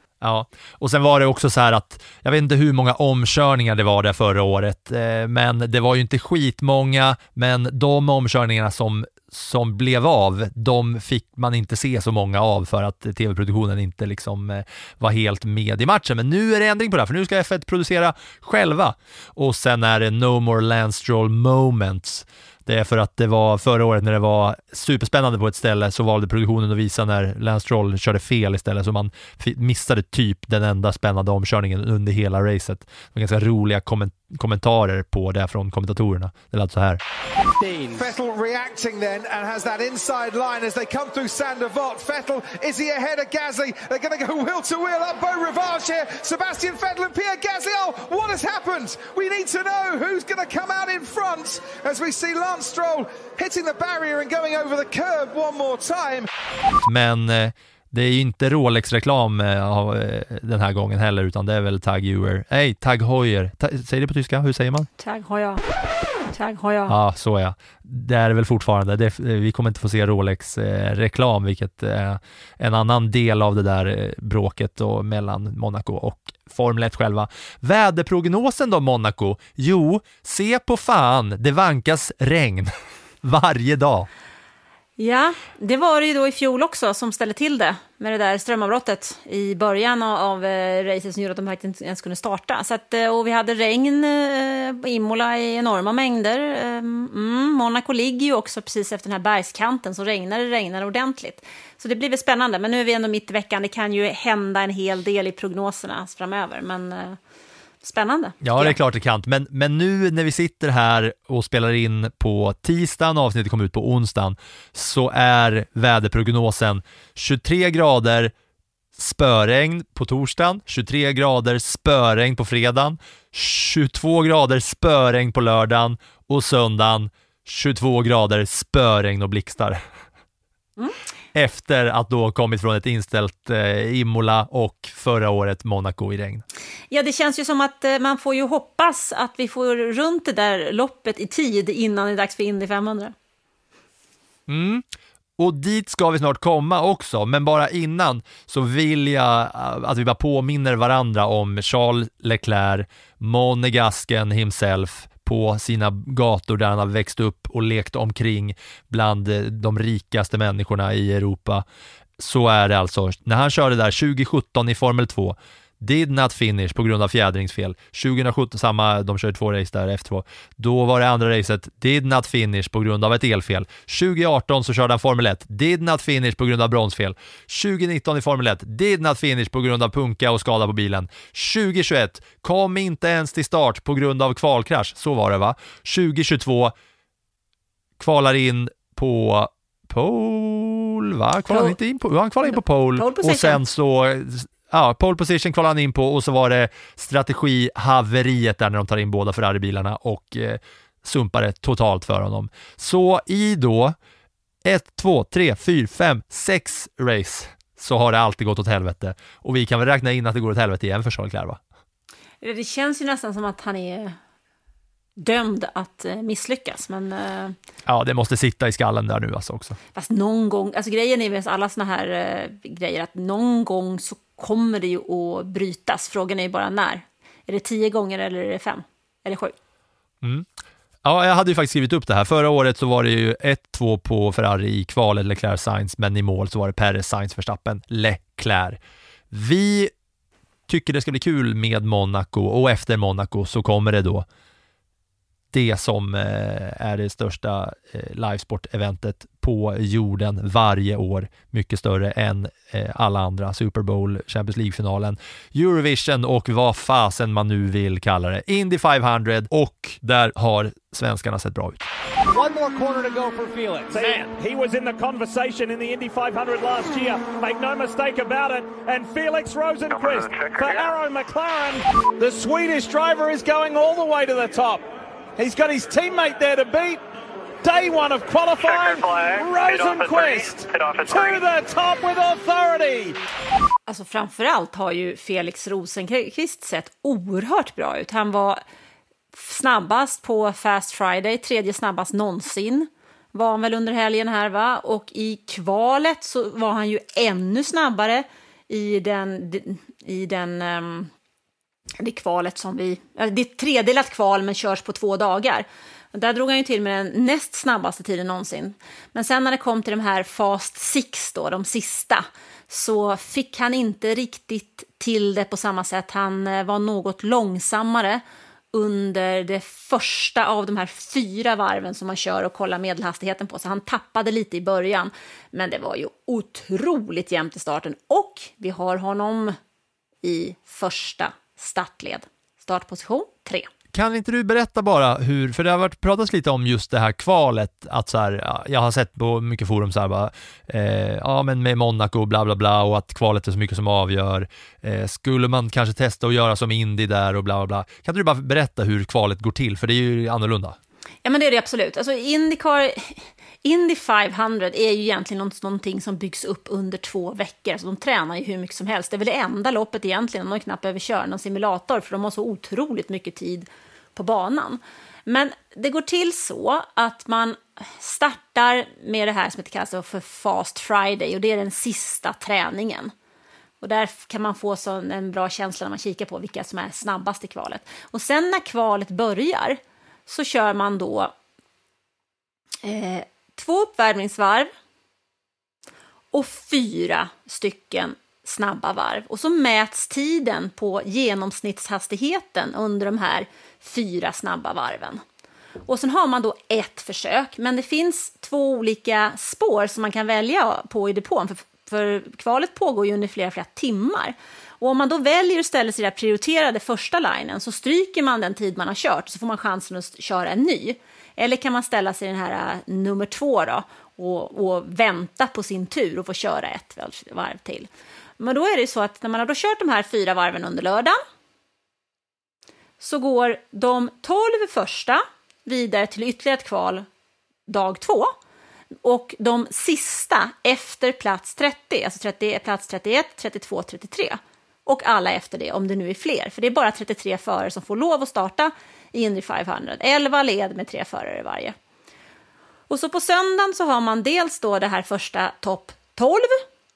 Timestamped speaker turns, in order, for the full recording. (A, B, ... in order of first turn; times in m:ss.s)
0:00.2-0:37.0 A
0:37.8-0:56.3 B
0:56.8-1:04.9 A
1:05.0-1:05.6 C
1:06.3-1:06.9 C
1:06.9-1:22.7 A
1:23.2-1:24.1 A
1:25.0-1:47.2 C
1:47.8-1:48.8 C
1:48.4-1:58.3 A
1:59.0-2:09.8 A
2:11.3-2:16.4 A
2:16.9-2:23.1 C
2:24.5-2:24.8 A
2:25.4-2:41.6 A
2:42.2-3:06.7 A
3:08.0-3:24.0 A
3:11.5-3:11.8 C
3:12.4-3:13.6 C
3:24.6-3:31.6 A
3:32.4-3:34.2 C
3:35.2-3:37.6 C
3:37.9-3:39.8 A
3:40.0-3:49.6 C
3:51.0-3:58.8 A
3:59.3-3:59.9 A
4:00.7-4:04.3 A
4:05.5-4:21.8 A
4:22.3-4:34.8 D
4:35.4-4:37.0 D
4:37.6-4:43.2 D
4:43.9-4:48.6 C
4:49.3-5:01.1 C
5:02.0-5:18.2 C
5:18.7-5:29.6 C
5:30.2-5:33.7 C
5:33.9-5:50.8 A
5:51.2-6:13.1 C
6:13.8-6:21.3 C
6:22.8-6:24.7 C
6:26.3-6:35.2 C
6:35.9-6:57.9 C
6:58.4-7:01.2 C
7:03.0-7:07.1 C
7:07.7-7:08.4 C
7:09.0-7:21.8 C
7:22.9-7:26.6 C